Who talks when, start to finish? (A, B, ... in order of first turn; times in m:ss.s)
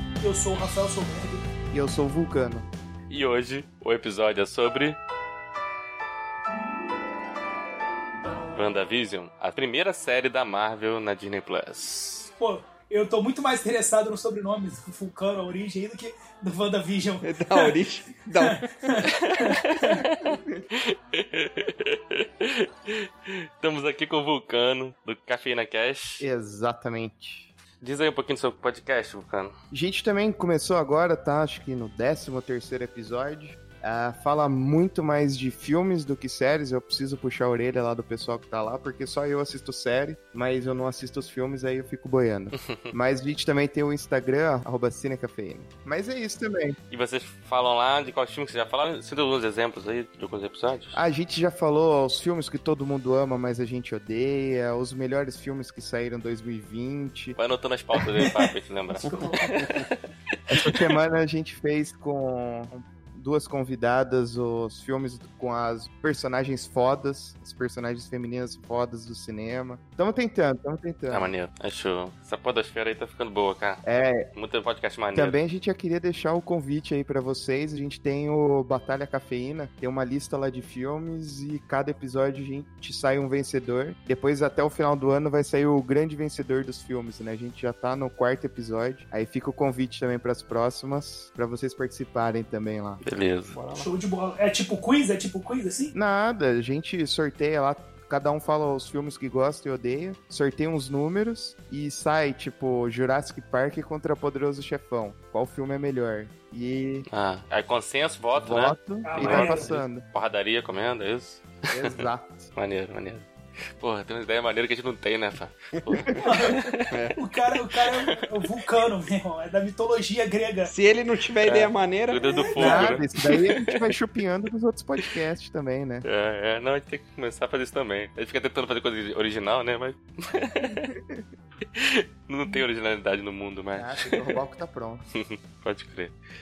0:00.2-0:01.4 A
0:01.7-0:02.7 B
0:03.1-0:05.0 C
0:08.5-0:12.3 C
0:12.4-0:17.8 A
0:17.2-0:18.8 D
0:18.4-0:20.0 A
0:19.1-0:26.3 C
0:26.2-0:27.5 B
0:27.8-0:29.5 C
0:29.7-0:46.8 B
0:46.9-0:51.0 C
0:50.9-0:57.4 B
0:57.4-1:00.0 C
0:59.0-0:59.6 A
1:00.5-1:11.3 B
1:11.1-1:15.3 C
1:13.8-1:14.3 B
1:15.1-1:33.0 B
1:33.0-1:33.6 C
1:33.5-1:33.9 D
1:33.8-1:35.9 A
1:35.9-1:47.1 B
1:47.1-1:53.3 C
1:48.3-1:50.0 B
1:49.0-1:49.7 A
1:51.7-1:52.5 B
1:53.8-1:57.0 C
1:55.8-1:57.2 D
1:56.2-1:56.6 A
1:57.2-2:00.7 A
1:57.8-1:58.2 C
2:00.7-2:02.9 D
2:01.4-2:03.8 C
2:02.6-2:06.0 B
2:06.0-2:10.9 C
2:11.7-2:14.4 C
2:13.8-2:15.0 B
2:15.2-2:16.2 C